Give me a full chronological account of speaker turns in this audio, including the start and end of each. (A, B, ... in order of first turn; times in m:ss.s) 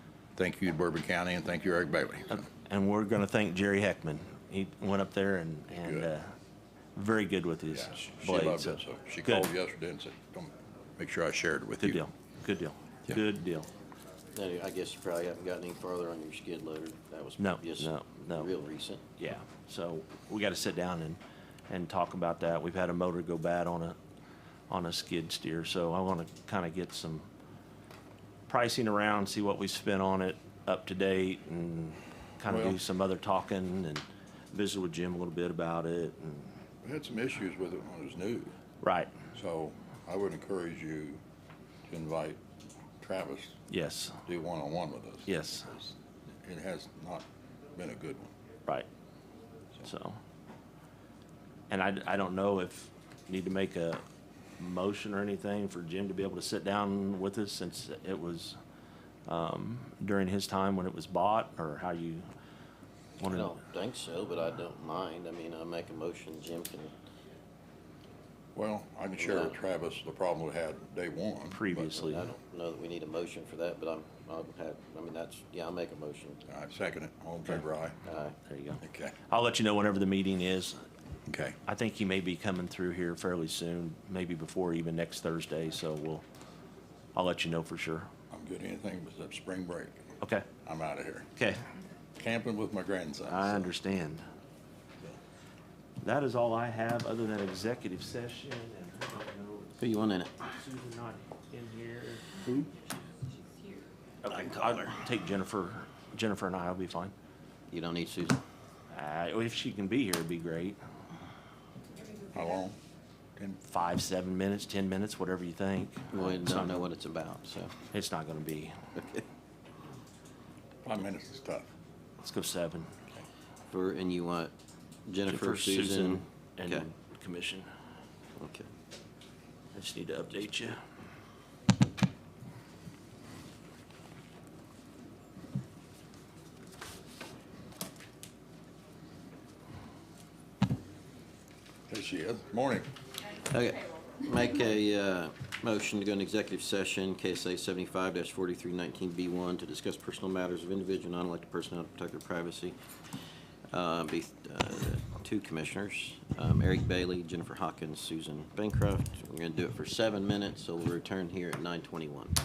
0:00.4-0:02.5 A
0:02.6-0:06.3 B
0:05.7-0:06.1 A
0:07.0-0:09.5 B
0:07.7-0:12.0 A
0:11.8-0:13.7 B
0:14.3-0:19.0 C
0:17.4-0:18.5 B
0:19.2-0:24.0 B
0:24.7-0:27.3 B
0:28.5-0:36.6 B
0:32.5-0:32.8 A
0:36.8-0:38.5 A
0:38.8-0:39.1 B
0:39.3-0:41.2 A
0:41.8-0:42.4 A
0:43.0-0:43.6 A
0:43.7-0:44.2 B
0:44.2-0:45.9 A
0:45.3-0:45.7 B
0:46.4-0:48.3 A
0:49.8-0:50.2 B
0:51.7-0:54.0 B
0:54.6-0:58.6 B
0:59.3-1:02.2 B
1:03.2-1:03.5 B
1:03.3-1:06.9 C
1:08.6-1:11.9 A
1:09.2-1:09.5 C
1:11.5-1:12.3 B
1:11.8-1:16.4 C
1:16.5-1:18.0 A
1:18.0-1:18.4 C
1:18.5-1:20.8 B
1:18.8-1:19.2 A
1:21.3-1:21.6 A
1:21.6-1:26.2 B
1:27.1-1:28.1 B
1:28.3-1:30.0 A
1:30.6-1:31.3 A
1:31.4-1:31.6 B
1:32.2-1:33.7 A
1:33.2-1:34.2 B
1:36.0-1:42.7 B
1:39.8-1:40.5 C
1:44.2-1:47.1 B
1:44.3-1:44.9 C
1:47.7-1:48.4 C
1:48.9-1:50.8 B
1:52.1-1:52.8 A
1:53.4-1:53.6 A
1:53.6-1:56.8 B
1:56.1-1:57.8 C
1:57.9-1:58.7 B
1:59.0-1:59.2 C
2:00.8-2:01.7 A
2:02.2-2:02.9 B
2:03.7-2:04.5 C
2:05.0-2:06.9 C
2:05.3-2:07.7 B
2:08.4-2:08.7 C
2:09.7-2:10.8 B
2:21.9-2:22.9 A
2:23.4-2:32.8 C
2:33.7-2:42.4 C